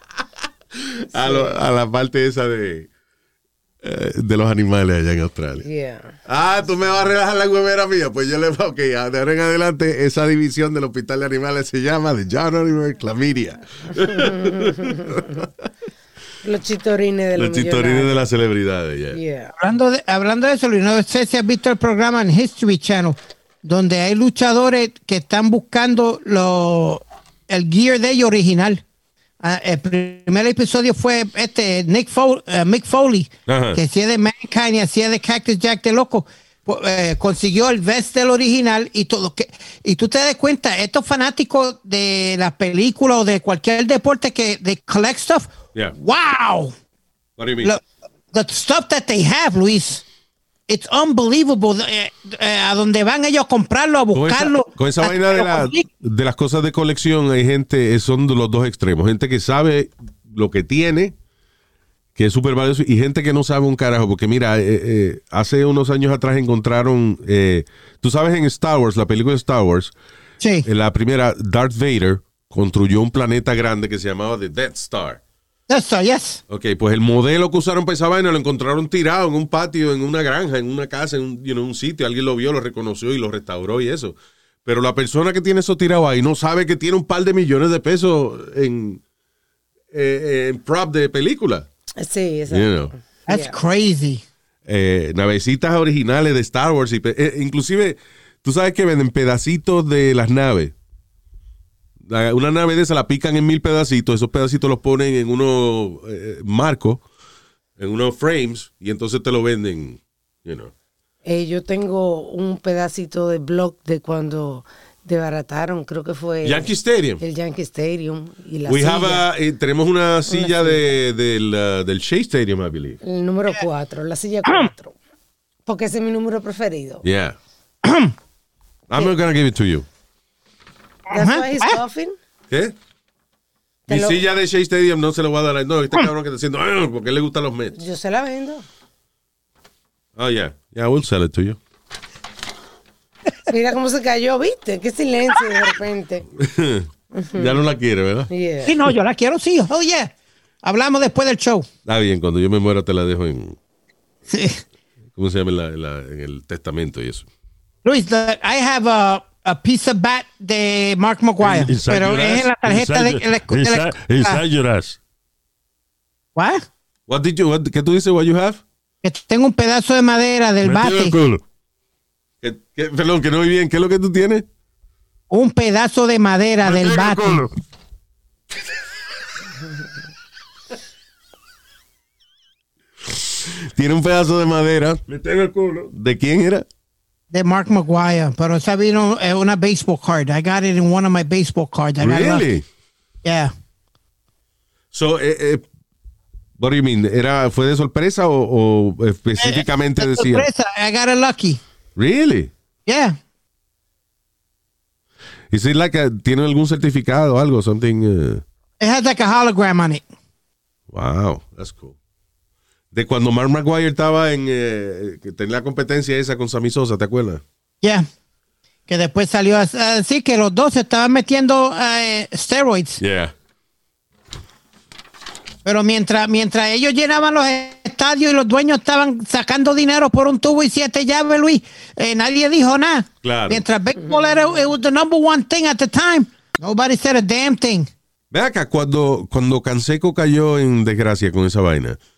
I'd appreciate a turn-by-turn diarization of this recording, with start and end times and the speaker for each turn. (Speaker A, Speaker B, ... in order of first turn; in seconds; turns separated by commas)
Speaker A: 0.7-2.9, Speaker B: 1.1-1.6, Speaker A: 3.8-5.6, Speaker B: 5.6-6.1, Speaker A: 6.2-15.5, Speaker B: 14.0-15.3, Speaker B: 16.4-18.1, Speaker A: 17.4-19.2, Speaker B: 19.1-19.5, Speaker C: 19.6-28.8, Speaker C: 29.4-46.7, Speaker A: 33.5-33.8, Speaker A: 47.4-47.7, Speaker C: 47.6-50.0, Speaker C: 50.7-55.9, Speaker A: 54.1-61.1, Speaker A: 62.1-69.9, Speaker C: 70.4-70.7, Speaker A: 70.6-75.2, Speaker C: 75.7-76.4, Speaker A: 76.5-89.0, Speaker A: 89.9-91.7, Speaker B: 92.0-93.5, Speaker A: 92.5-92.9, Speaker C: 93.3-94.2, Speaker A: 94.7-100.7, Speaker A: 102.0-107.0, Speaker A: 107.8-110.7, Speaker B: 111.2-116.7, Speaker A: 116.4-117.2, Speaker B: 117.2-119.2, Speaker A: 118.7-123.0, Speaker B: 120.3-120.8, Speaker B: 123.0-124.9, Speaker B: 125.7-127.0, Speaker A: 127.0-127.4, Speaker C: 127.8-128.1, Speaker A: 128.9-129.8, Speaker C: 131.1-131.8, Speaker B: 131.1-132.2, Speaker A: 132.5-132.7, Speaker B: 133.9-134.2, Speaker A: 133.9-137.8, Speaker B: 137.7-138.6, Speaker A: 140.2-141.6, Speaker B: 143.5-146.3, Speaker A: 146.4-148.3, Speaker B: 147.1-147.6, Speaker B: 148.3-148.8, Speaker C: 148.7-150.1, Speaker C: 150.6-151.7, Speaker A: 151.8-153.6, Speaker C: 154.3-154.6, Speaker A: 155.2-157.2, Speaker C: 157.8-164.4, Speaker D: 161.4-165.0, Speaker C: 166.3-166.6, Speaker A: 167.1-168.6, Speaker C: 169.0-171.2, Speaker D: 170.6-171.4, Speaker A: 172.4-174.4, Speaker C: 175.3-177.4, Speaker D: 176.6-177.5, Speaker A: 183.4-185.0, Speaker D: 185.1-185.9, Speaker A: 185.9-186.6, Speaker C: 187.3-192.4, Speaker A: 192.0-192.6, Speaker C: 193.2-193.5, Speaker A: 194.9-195.6, Speaker A: 196.6-200.5, Speaker C: 199.4-201.6, Speaker A: 201.9-202.5, Speaker C: 202.8-203.2, Speaker A: 205.5-208.4, Speaker C: 208.8-210.0, Speaker A: 210.9-211.9, Speaker A: 212.9-217.4, Speaker C: 218.9-223.0, Speaker A: 223.0-223.3, Speaker C: 225.6-237.9, Speaker A: 233.2-233.6, Speaker B: 234.0-234.4, Speaker A: 238.3-242.0